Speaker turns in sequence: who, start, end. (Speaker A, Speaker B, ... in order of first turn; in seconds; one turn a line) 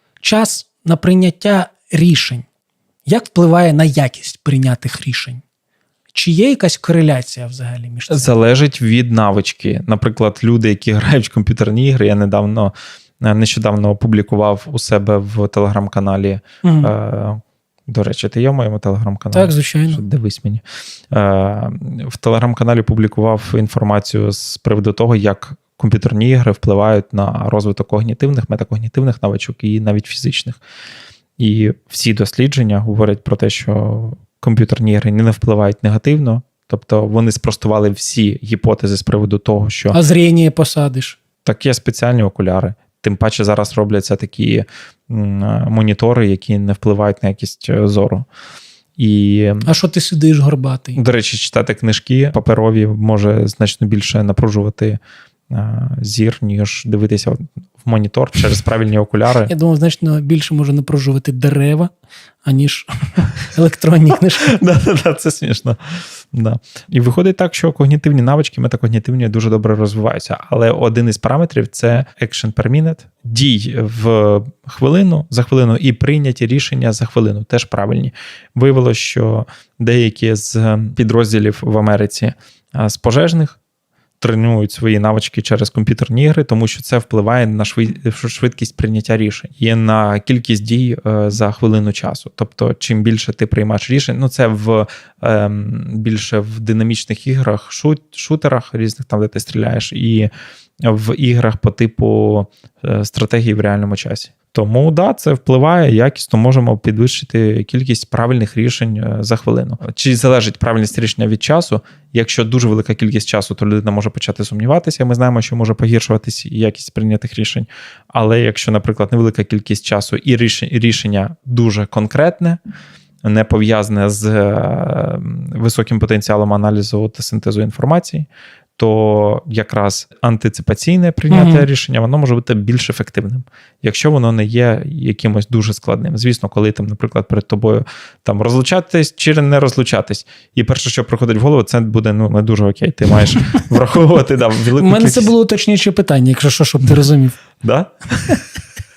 Speaker A: 0.2-2.5
Speaker A: 3.0-5.4
Speaker A: 6.1-8.3
Speaker B: 8.1-30.6
Speaker A: 16.6-16.9
Speaker A: 19.3-20.0
Speaker B: 31.4-40.0
Speaker A: 39.9-41.2
Speaker B: 41.4-48.2
Speaker B: 49.0-49.7
Speaker A: 49.6-51.0
Speaker B: 50.9-55.0
Speaker B: 55.5-59.5
Speaker A: 59.5-61.9
Speaker A: 62.4-64.6
Speaker B: 64.4-65.8
Speaker B: 66.3-83.6
Speaker B: 84.2-100.3
Speaker B: 100.8-122.6
Speaker B: 123.2-145.3
Speaker A: 131.3-131.7
Speaker A: 144.8-147.4
Speaker B: 147.6-148.4